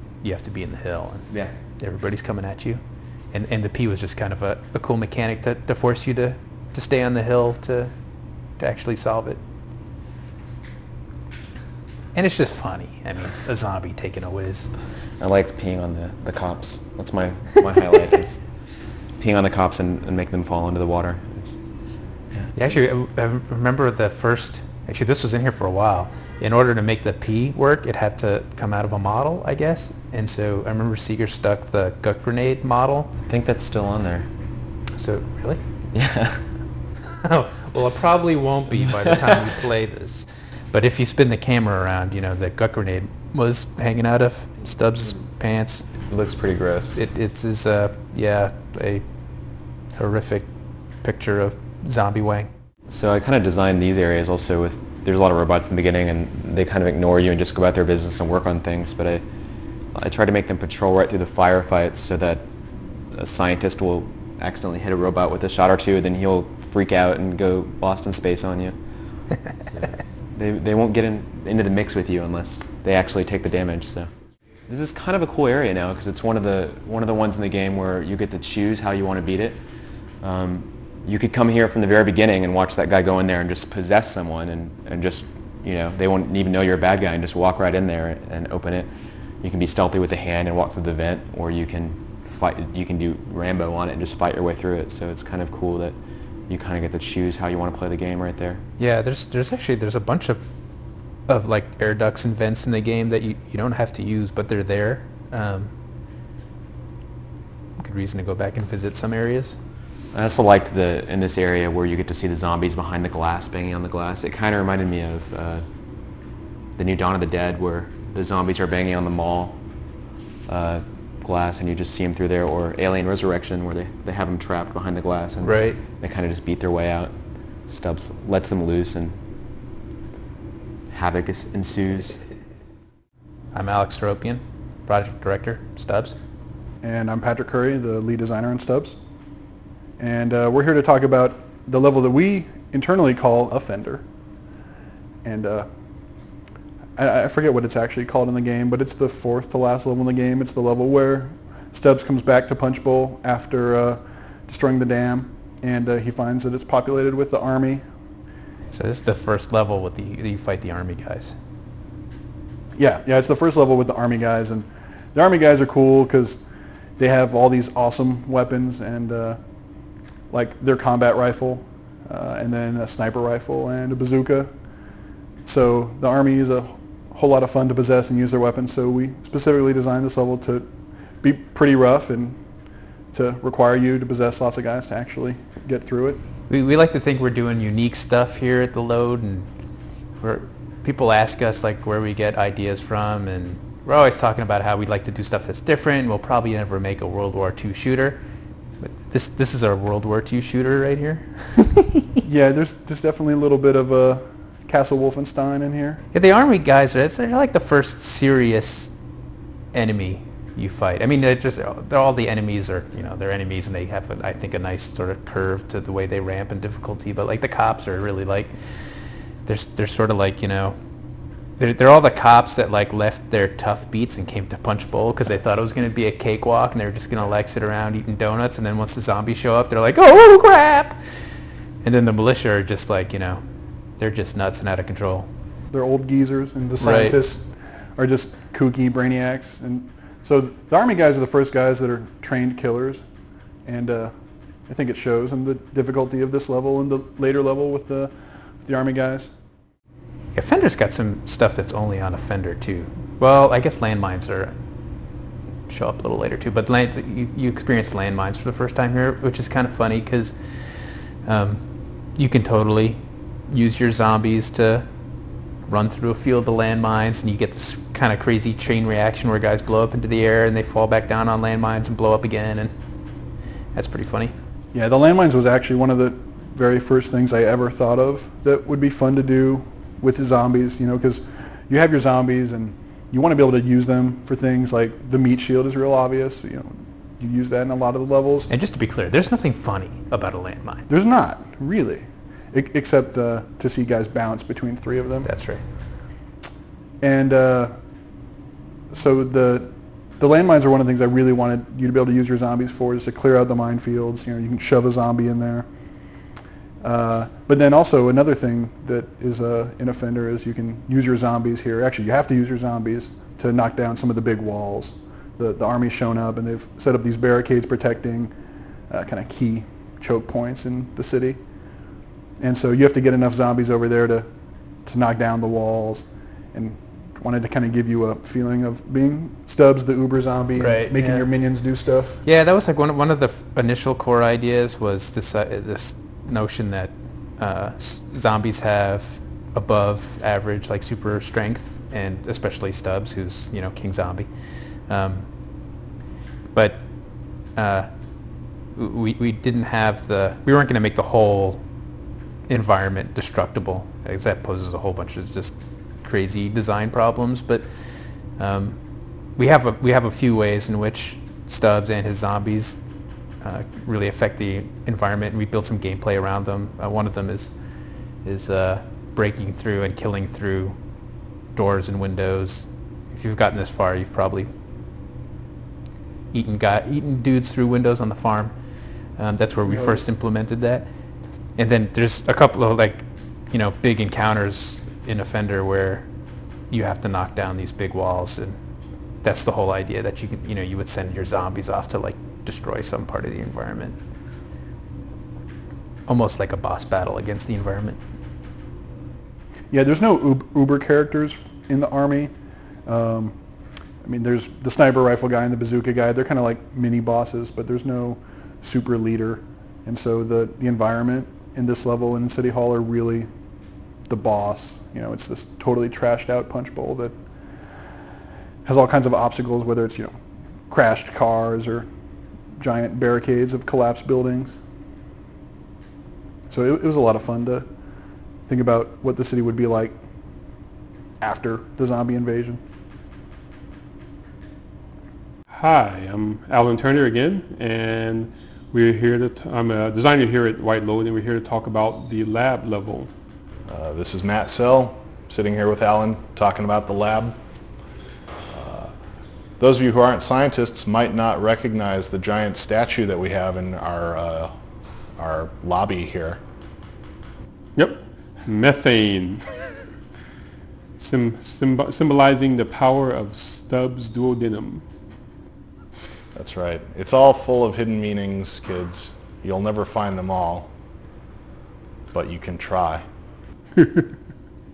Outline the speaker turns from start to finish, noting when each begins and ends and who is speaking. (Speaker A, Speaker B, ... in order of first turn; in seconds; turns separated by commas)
Speaker A: 0.2-2.8, Speaker A: 3.3-7.9, Speaker A: 8.6-9.4, Speaker A: 12.1-14.7, Speaker B: 15.2-18.4, Speaker B: 19.2-21.6, Speaker A: 22.5-33.1, Speaker B: 33.2-34.3, Speaker A: 34.9-35.6, Speaker B: 35.9-36.5, Speaker A: 37.2-45.9, Speaker B: 46.1-47.0, Speaker A: 46.9-52.5, Speaker B: 52.9-59.2, Speaker B: 59.9-68.8, Speaker B: 69.3-74.1, Speaker B: 74.7-79.6, Speaker B: 80.2-96.0, Speaker B: 96.5-98.6, Speaker A: 98.8-100.4, Speaker A: 101.3-105.7, Speaker A: 107.8-109.6, Speaker B: 110.1-115.6, Speaker B: 116.8-119.6, Speaker B: 120.5-127.2, Speaker A: 125.4-125.8, Speaker B: 127.7-129.2, Speaker B: 130.9-132.2, Speaker A: 133.5-136.2, Speaker C: 136.8-139.0, Speaker C: 140.0-144.0, Speaker C: 145.2-145.7, Speaker C: 146.9-157.8, Speaker A: 158.7-161.4, Speaker C: 162.8-166.4, Speaker C: 167.0-169.4, Speaker C: 170.3-174.6, Speaker C: 175.4-182.4, Speaker C: 183.1-186.2, Speaker A: 186.5-189.5, Speaker A: 190.2-198.2, Speaker A: 198.8-202.0, Speaker C: 202.2-206.0, Speaker A: 206.1-208.9, Speaker A: 209.7-220.8, Speaker A: 221.6-233.4, Speaker A: 234.0-235.3, Speaker C: 235.7-243.0, Speaker A: 236.8-237.2, Speaker C: 243.6-244.1, Speaker C: 244.7-249.3, Speaker A: 250.3-254.6, Speaker A: 255.7-264.9, Speaker A: 265.6-272.7, Speaker A: 273.7-274.3, Speaker C: 274.7-288.5, Speaker A: 288.5-290.9, Speaker C: 290.9-295.3, Speaker A: 295.2-295.6, Speaker C: 297.0-297.8, Speaker C: 298.9-306.3, Speaker C: 306.8-318.3, Speaker C: 318.9-321.4, Speaker C: 322.4-324.3, Speaker C: 324.8-332.2, Speaker A: 330.6-331.3, Speaker A: 332.2-345.3, Speaker A: 346.5-351.6, Speaker A: 352.5-362.8, Speaker A: 363.4-367.6, Speaker A: 368.2-370.8, Speaker A: 371.5-374.5, Speaker A: 376.3-378.5, Speaker A: 379.1-380.9, Speaker C: 379.7-380.0, Speaker A: 381.6-386.1, Speaker A: 386.7-388.6, Speaker A: 389.2-394.0, Speaker A: 396.1-398.0, Speaker C: 399.7-402.3, Speaker C: 402.8-403.4, Speaker C: 404.0-413.3, Speaker C: 414.1-417.2, Speaker C: 418.6-420.1, Speaker C: 420.7-421.9, Speaker C: 422.6-424.6, Speaker C: 426.5-427.7, Speaker C: 428.5-430.0, Speaker C: 431.2-432.6, Speaker D: 435.5-443.1, Speaker E: 443.7-447.4, Speaker E: 448.5-448.9, Speaker E: 449.6-454.5, Speaker E: 455.2-456.4, Speaker D: 457.8-459.8, Speaker D: 461.0-464.9, Speaker E: 466.3-470.7, Speaker E: 472.1-473.0, Speaker D: 473.8-474.1